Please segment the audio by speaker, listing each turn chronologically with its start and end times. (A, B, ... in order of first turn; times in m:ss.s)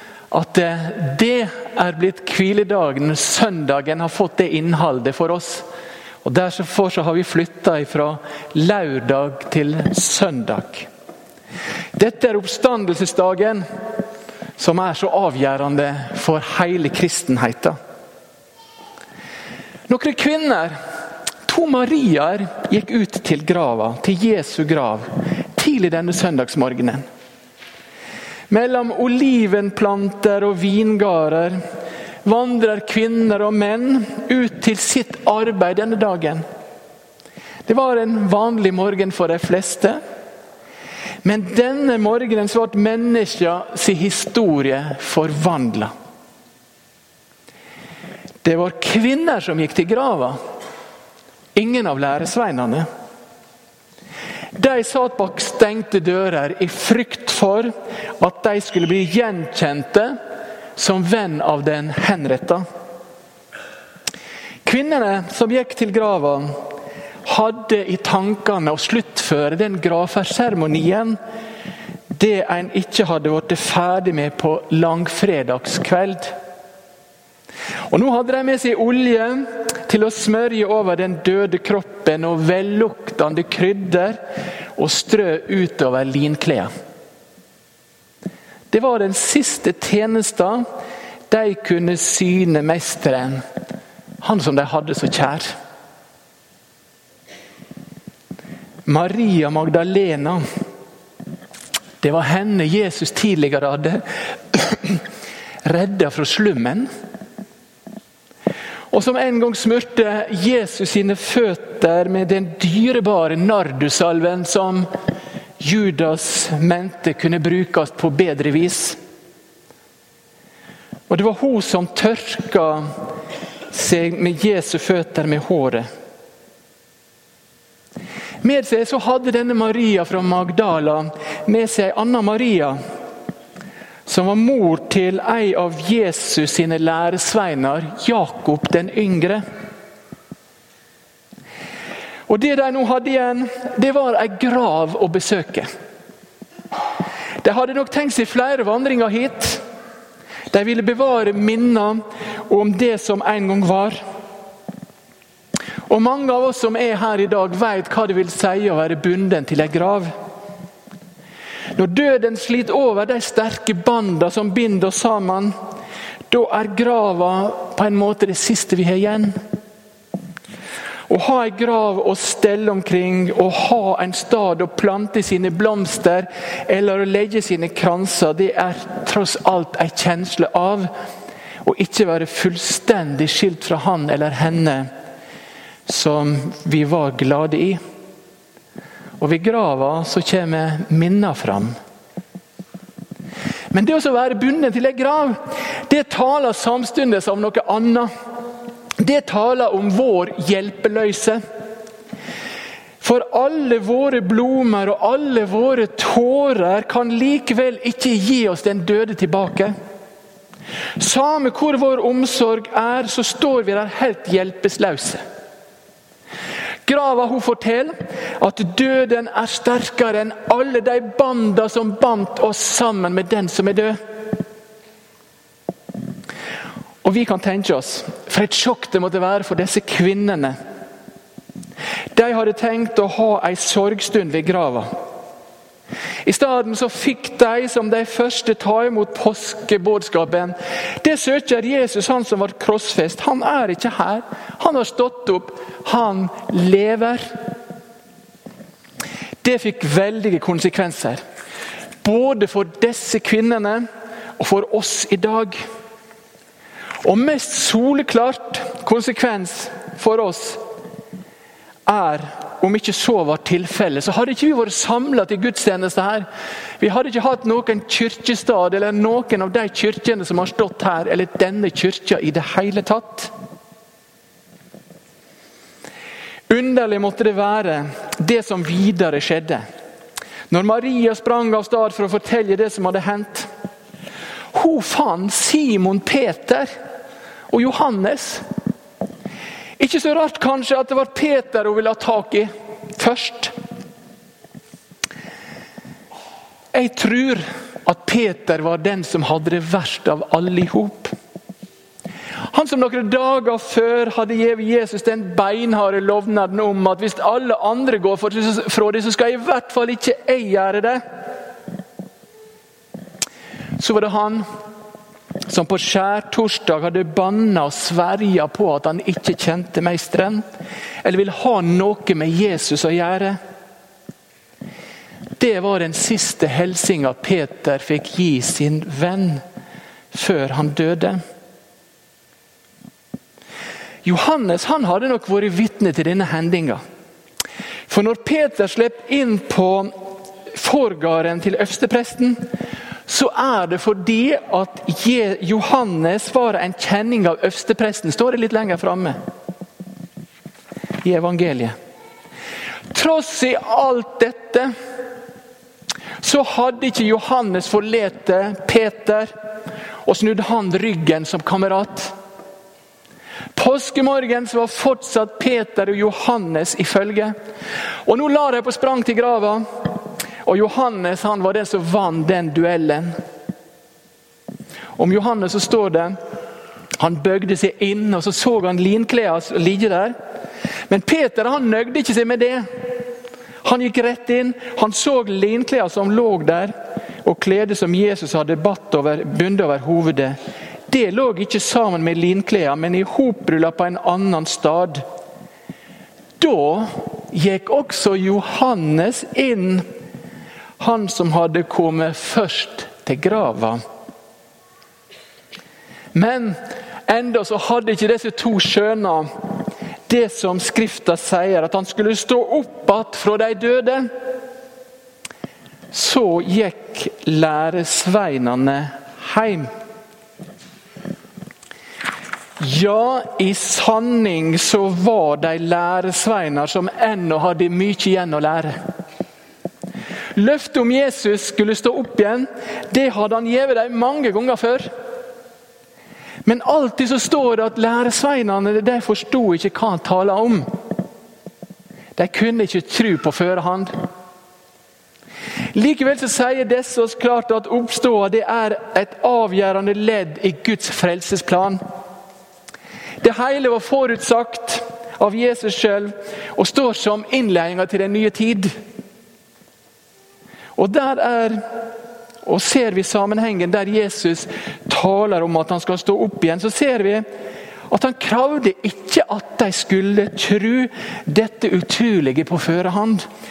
0:00.3-0:05.6 A
0:06.2-0:10.9 A
0:12.0-0:13.6 A
0:14.6-0:17.8 A
0:19.9-0:20.8 A
0:21.4-0:27.0 A
0:28.5-0:31.6 A
0:32.2-0:36.4 A
0:37.7-0:40.0 A
0:41.2-0:45.9 A
0:48.4-0:50.4 A
0:51.6-0:52.9 A
0:54.5-1:00.2 A
1:00.8-1:02.6 A
1:04.6-1:06.5 A
1:07.2-1:11.2 A
1:12.1-1:16.3 A
1:17.9-1:24.2 A
1:24.8-1:26.7 A
1:28.7-1:30.6 A
1:31.3-1:33.4 A
1:34.2-1:35.5 A
1:38.8-1:40.4 A
1:42.0-1:45.0 A
1:45.6-1:46.9 A
1:48.9-1:54.9 A
1:55.6-1:59.0 A
2:01.1-2:02.8 A
2:03.7-2:05.9 A
2:08.4-2:12.8 A
2:14.0-2:19.4 A
2:22.3-2:25.7 A
2:27.4-2:29.6 A
2:30.5-2:34.0 A
2:35.9-2:40.1 A
2:41.8-2:45.5 A
2:46.3-2:49.4 A
2:51.1-3:00.9 A
3:01.6-3:04.9 A
3:05.9-3:07.8 A
3:09.2-3:11.7 A
3:13.7-3:18.1 A
3:19.0-3:21.4 A
3:23.0-3:29.7 A
3:31.0-3:35.2 A
3:36.8-3:44.0 A
3:47.0-3:50.6 A
3:52.1-3:54.9 A
3:56.2-4:07.2 A
4:09.4-4:11.2 A
4:12.0-4:13.8 A
4:14.4-4:15.6 A
4:17.0-4:20.6 A
4:21.9-4:26.3 A
4:26.8-4:33.3 A
4:36.5-4:39.6 A
4:40.5-4:43.5 A
4:44.5-4:46.7 A
4:47.5-4:48.4 A
4:49.8-4:53.5 A
4:56.7-5:01.1 A
5:02.5-5:11.0 A
5:13.8-5:14.4 A
5:15.5-5:20.4 A
5:21.0-5:23.4 A
5:25.4-5:29.4 A
5:30.1-5:31.2 A
5:34.0-5:36.8 A
5:37.9-5:42.4 A
5:43.1-5:49.2 A
5:51.0-5:51.7 A
5:52.9-5:54.7 A
5:56.2-5:59.3 A
6:00.0-6:02.1 A
6:03.6-6:07.3 A
6:08.0-6:09.6 A
6:10.4-6:13.1 A
6:15.0-6:16.2 A
6:17.0-6:20.1 A
6:20.9-6:22.6 A
6:23.6-6:30.4 A
6:30.9-6:35.0 A
6:36.4-6:39.8 A
6:40.8-6:43.8 A
6:46.1-6:49.3 A
6:50.1-6:54.1 A
6:55.9-6:59.7 A
7:02.6-7:08.8 A
7:10.3-7:14.9 A
7:16.4-7:20.6 A
7:22.2-7:23.9 A
7:25.7-7:31.8 A
7:33.2-7:38.7 A
7:40.8-7:41.6 A
7:42.4-7:47.2 A
7:47.9-7:53.2 A